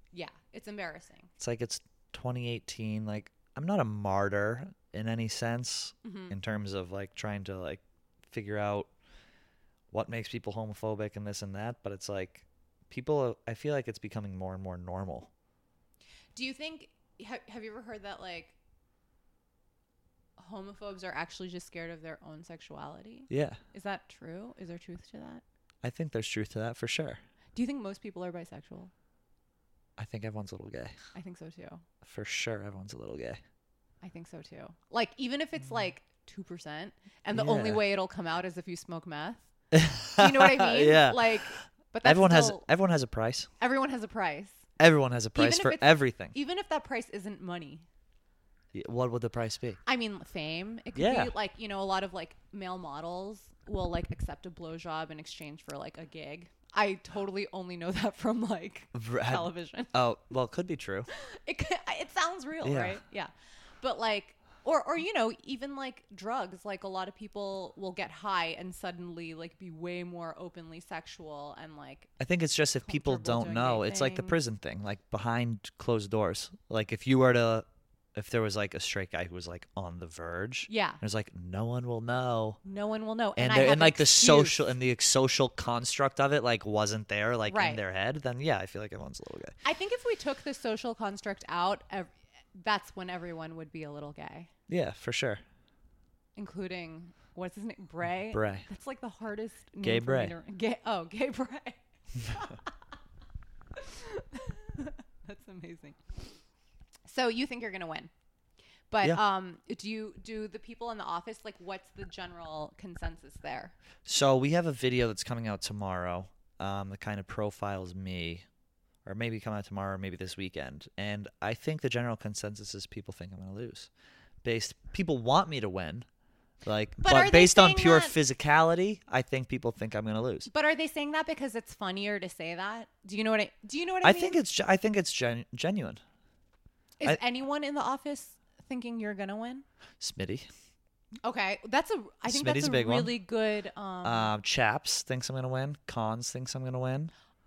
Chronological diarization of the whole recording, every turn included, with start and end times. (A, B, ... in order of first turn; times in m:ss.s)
0:00.1-0:01.3 A
0:01.4-0:08.9 B
0:06.0-0:06.3 A
0:09.9-0:15.3 B
0:16.3-0:18.5 A
0:20.4-0:25.4 A
0:23.3-0:23.6 B
0:25.8-0:27.2 B
0:27.5-0:28.9 A
0:30.0-0:31.0 B
0:31.1-0:31.8 A
0:32.0-0:33.4 B
0:34.0-0:39.5 A
0:37.3-0:37.8 B
0:39.7-0:43.5 B
0:40.2-0:42.6 A
0:43.6-0:44.6 A
0:44.8-0:46.3 B
0:45.3-0:47.8 A
0:48.7-0:49.8 B
0:49.8-0:59.9 A
0:51.0-0:51.3 B
0:58.9-1:01.1 B
1:01.1-1:03.3 A
1:02.6-1:03.0 B
1:03.8-1:12.1 A
1:12.2-1:22.6 B
1:12.8-1:14.4 A
1:20.7-1:21.0 A
1:22.6-1:24.7 A
1:23.4-1:29.6 B
1:27.5-1:27.8 A
1:29.6-1:34.5 A
1:34.7-1:35.4 B
1:36.4-1:42.7 A
1:38.3-1:38.6 B
1:39.8-1:40.3 B
1:43.8-1:46.0 A
1:47.1-1:48.1 A
1:48.9-1:53.8 A
1:54.0-1:58.4 B
1:59.0-2:03.9 B
2:04.4-2:06.0 B
2:06.6-2:10.5 B
2:07.0-2:08.2 A
2:10.5-2:14.4 A
2:14.0-2:16.0 B
2:17.0-2:19.6 A
2:20.0-2:20.5 B
2:21.2-2:24.3 A
2:22.2-2:23.1 B
2:24.0-2:27.1 B